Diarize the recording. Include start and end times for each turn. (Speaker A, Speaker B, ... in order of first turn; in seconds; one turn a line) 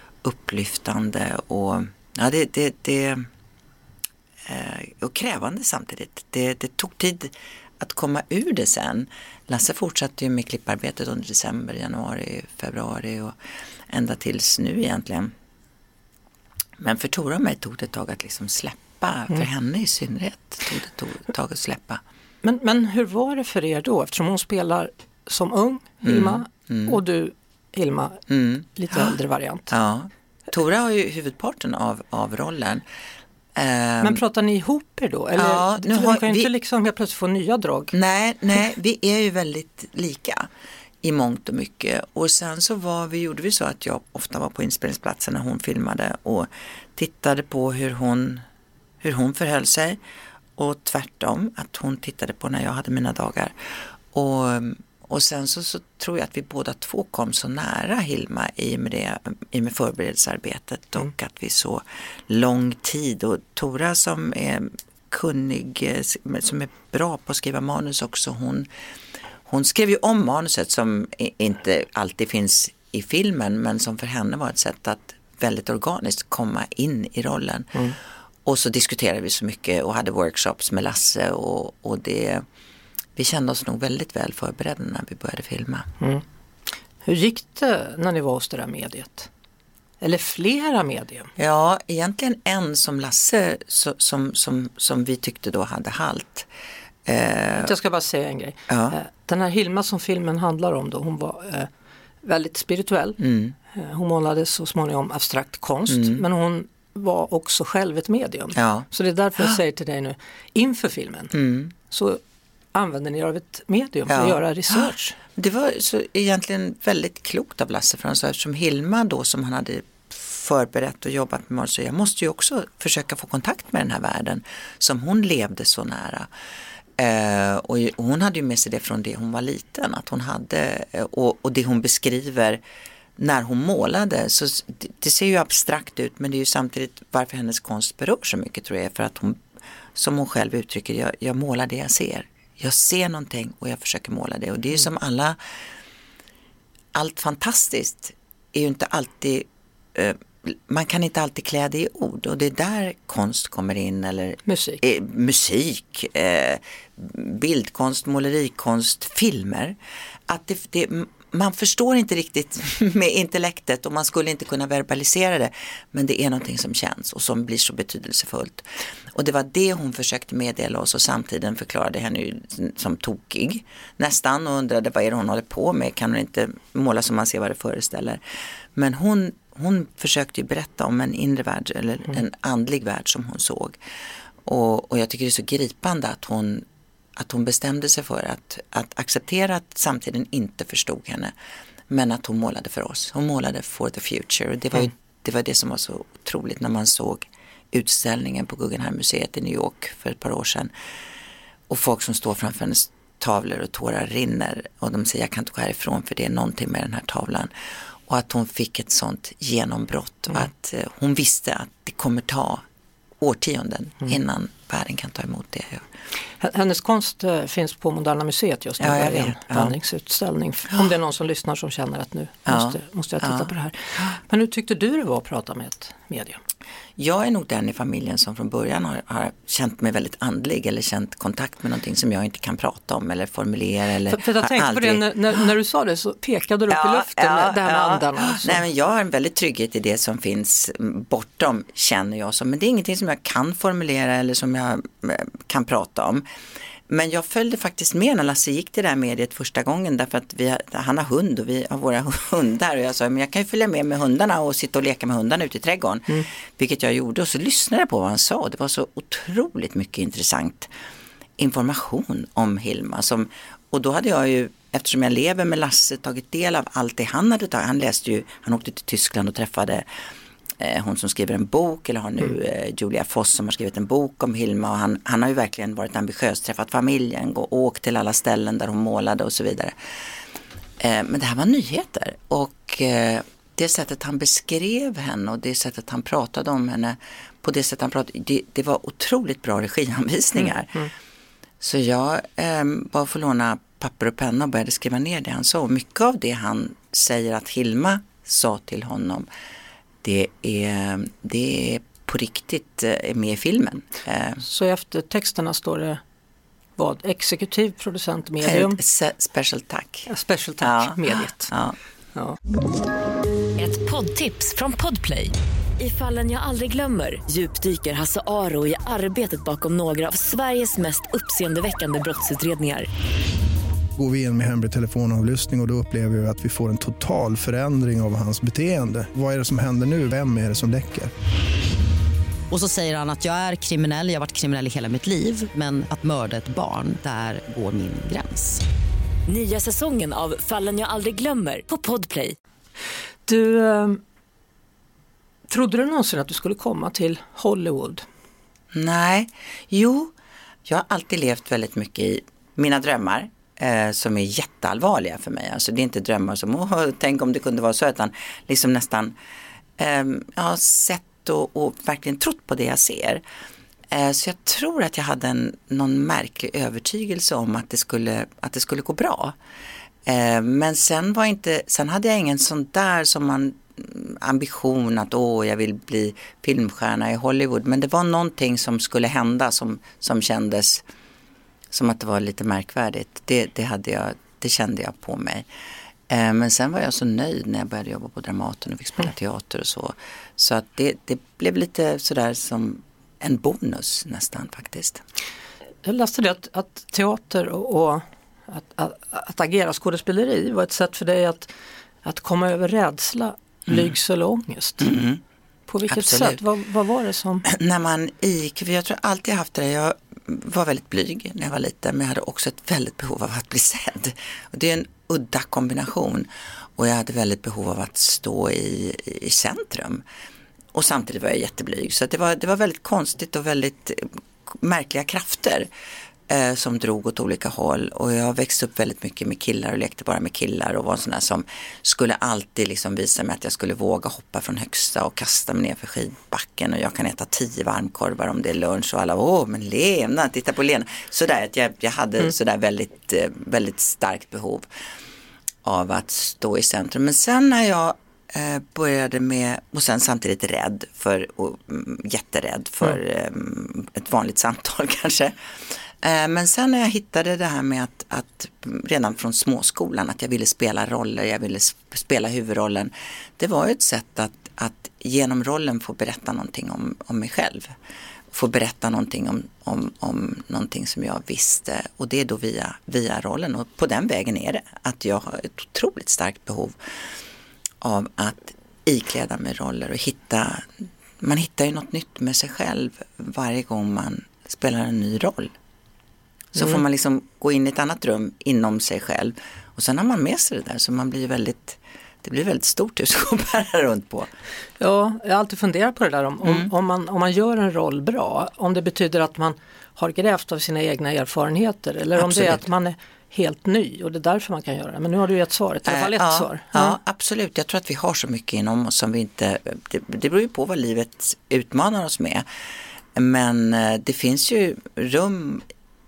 Speaker A: 0.2-3.3
Speaker A: 4.5-13.4
Speaker A: 13.9-15.3
Speaker A: 16.8-22.0
Speaker B: 22.4-28.2
Speaker A: 26.0-27.0
Speaker A: 28.3-29.1
Speaker B: 28.8-29.7
Speaker A: 29.7-32.8
Speaker A: 33.5-34.2
Speaker B: 34.0-37.9
Speaker A: 35.4-36.5
Speaker A: 37.9-40.5
Speaker A: 41.0-48.4
Speaker A: 49.0-50.0
Speaker A: 50.6-68.7
Speaker A: 69.5-77.8
Speaker A: 78.4-82.4
Speaker A: 83.2-85.9
Speaker B: 87.0-89.3
Speaker B: 90.0-91.3
Speaker A: 91.4-96.5
Speaker A: 97.0-97.7
Speaker B: 97.6-101.7
Speaker A: 98.7-99.0
Speaker B: 102.2-103.2
Speaker A: 103.2-103.5
Speaker B: 103.7-111.3
Speaker A: 105.9-106.2
Speaker A: 108.5-108.8
Speaker A: 111.3-111.7
Speaker B: 111.9-112.2
Speaker B: 112.7-115.2
Speaker A: 114.1-126.3
Speaker A: 127.0-132.6
Speaker A: 133.2-139.4
Speaker A: 139.9-145.4
Speaker A: 146.9-159.8
Speaker B: 154.4-154.8
Speaker A: 160.3-178.2
Speaker A: 178.7-183.8
Speaker A: 184.4-191.3
Speaker A: 191.9-200.7
Speaker A: 201.7-207.5
Speaker A: 208.1-212.6
Speaker A: 213.2-215.8
Speaker B: 216.4-226.4
Speaker A: 218.8-219.7
Speaker A: 222.4-223.5
Speaker A: 227.0-235.0
Speaker B: 234.1-238.6
Speaker A: 236.7-246.2
Speaker A: 246.9-260.7
Speaker A: 261.4-269.9
Speaker A: 270.6-279.7
Speaker A: 280.8-290.8
Speaker A: 291.6-299.3
Speaker A: 300.0-304.4
Speaker B: 304.4-306.0
Speaker B: 306.8-308.8
Speaker A: 308.4-310.1
Speaker B: 310.1-311.5
Speaker A: 310.6-311.8
Speaker C: 313.6-322.9
Speaker D: 324.0-331.1
Speaker E: 332.5-338.6
Speaker C: 339.3-342.4
Speaker B: 343.2-344.0
Speaker B: 345.5-348.0
Speaker A: 348.7-350.1
Speaker A: 350.6-359.1
Speaker A: 359.8-363.2
Speaker A: 363.9-369.4
Speaker A: 370.1-380.8
Speaker A: 381.7-385.4
Speaker A: 386.1-395.0
Speaker B: 395.8-401.5
Speaker B: 402.0-404.9
Speaker A: 404.8-405.2
Speaker B: 405.7-407.4
Speaker A: 405.9-406.4
Speaker A: 407.4-420.0
Speaker A: 420.7-425.7
Speaker A: 426.3-444.7
Speaker A: 445.6-467.7
Speaker A: 468.3-476.8
Speaker A: 477.8-485.5
Speaker A: 486.5-494.3
Speaker B: 494.8-507.0
Speaker A: 496.4-496.7
Speaker A: 502.2-502.6
Speaker A: 505.9-512.4
Speaker A: 513.1-515.6